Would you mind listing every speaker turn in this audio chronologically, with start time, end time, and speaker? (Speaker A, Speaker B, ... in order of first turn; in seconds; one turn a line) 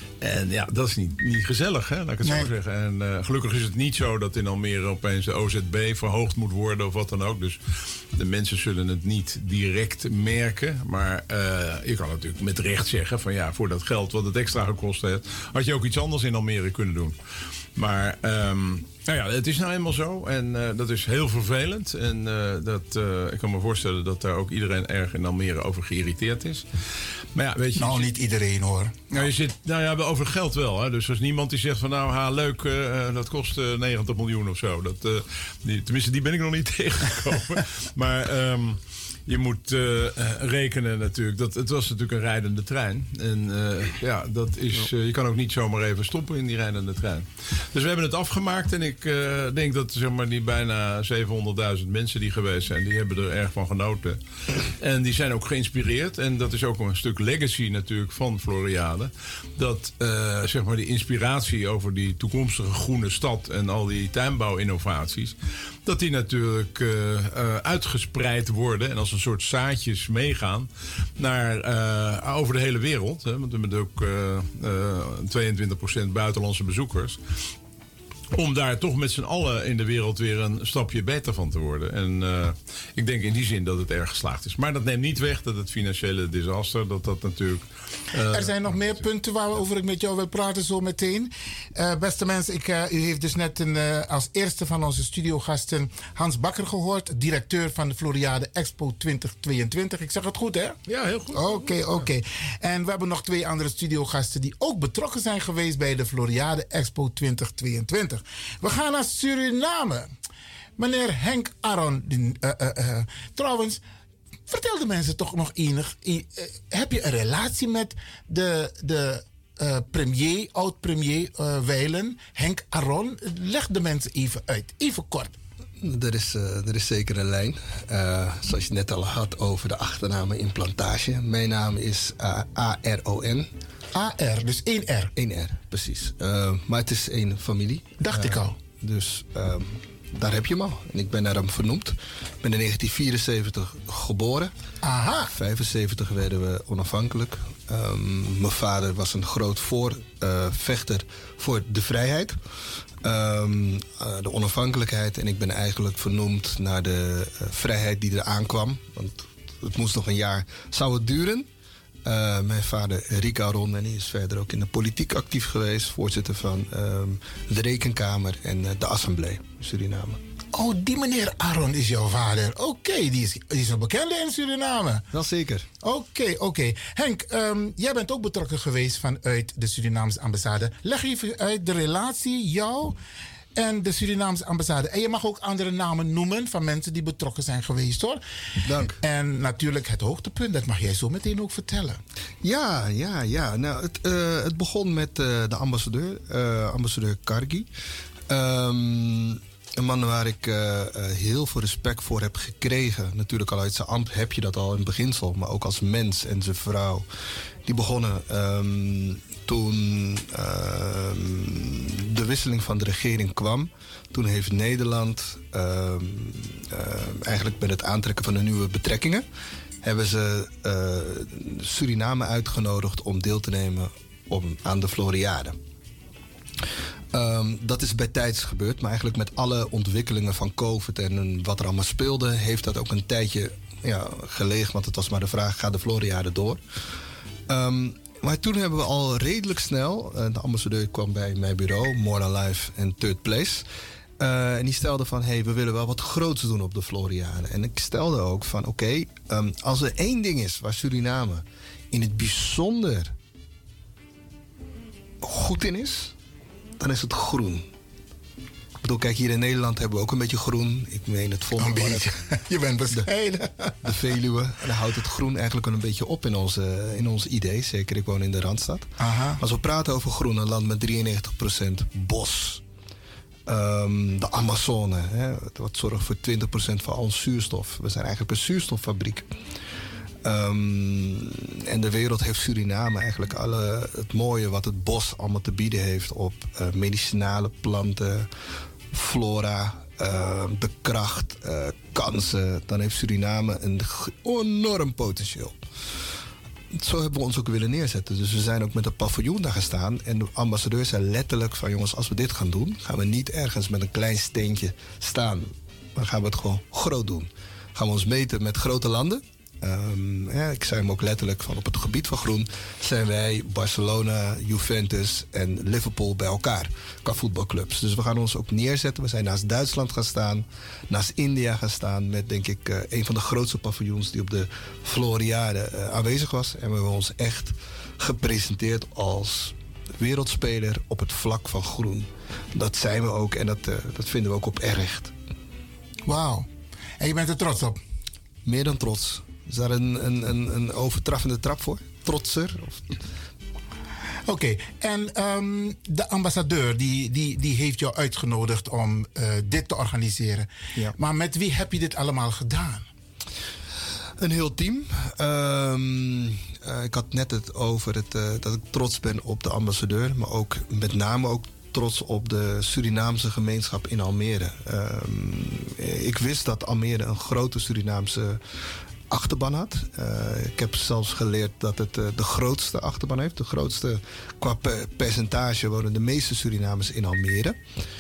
Speaker A: 0.2-7.6
Speaker B: 2.2-2.5
Speaker A: 8.1-17.1
Speaker A: 17.8-26.6
Speaker A: 27.3-28.1
Speaker B: 27.8-29.3
Speaker A: 29.1-65.3
Speaker A: 65.9-77.2
Speaker A: 78.3-88.7
Speaker B: 88.3-100.8
Speaker A: 100.9-101.8
Speaker B: 101.3-110.1
Speaker B: 110.8-113.8
Speaker B: 114.5-125.3
Speaker C: 125.8-133.5
Speaker B: 133.9-135.1
Speaker C: 135.2-144.5
Speaker B: 138.0-138.6
Speaker B: 144.8-145.3
Speaker C: 145.3-152.4
Speaker C: 153.0-161.5
Speaker C: 162.1-170.2
Speaker B: 170.5-175.1
Speaker C: 175.1-175.7
Speaker B: 175.8-183.0
Speaker B: 183.6-188.2
Speaker C: 188.7-189.0
Speaker B: 188.8-192.0
Speaker C: 192.4-197.7
Speaker C: 198.3-207.1
Speaker C: 207.7-219.2
Speaker C: 219.8-225.6
Speaker C: 227.1-236.6
Speaker C: 237.5-243.7
Speaker C: 244.2-253.1
Speaker C: 255.2-256.1
Speaker C: 256.8-257.7
Speaker C: 258.8-262.1
Speaker B: 261.6-263.8
Speaker C: 263.8-272.6
Speaker B: 269.0-269.4
Speaker C: 273.5-279.3
Speaker C: 280.2-288.3
Speaker C: 288.9-295.6
Speaker C: 296.7-335.1
Speaker B: 336.1-336.5
Speaker B: 337.0-337.8
Speaker C: 338.4-343.0
Speaker B: 344.3-352.9
Speaker C: 354.2-368.4
Speaker C: 369.1-377.6